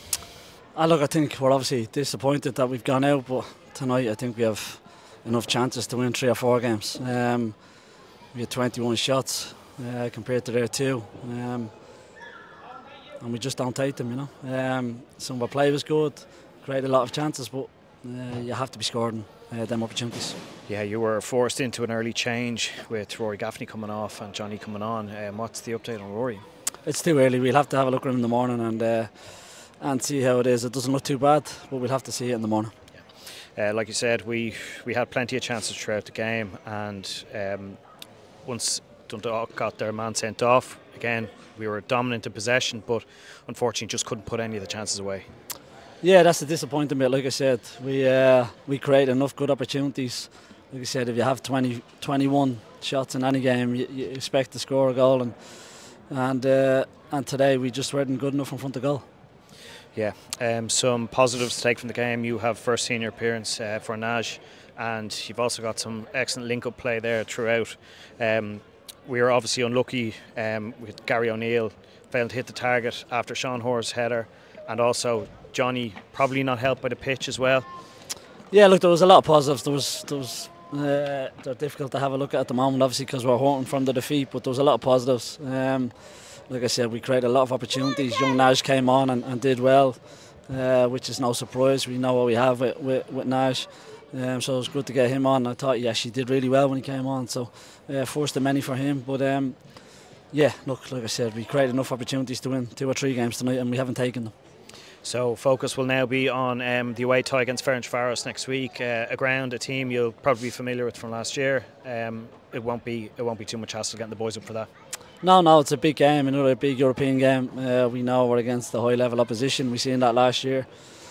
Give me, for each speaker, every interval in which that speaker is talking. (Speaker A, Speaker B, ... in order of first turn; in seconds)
Speaker A: 0.7-7.6, 8.3-11.9, 13.2-20.4, 26.8-32.7, 46.0-59.0, 78.5-104.3, 115.2-120.7
Speaker B: 20.7-26.4, 33.5-37.8, 38.5-45.3, 60.0-77.7, 105.0-114.7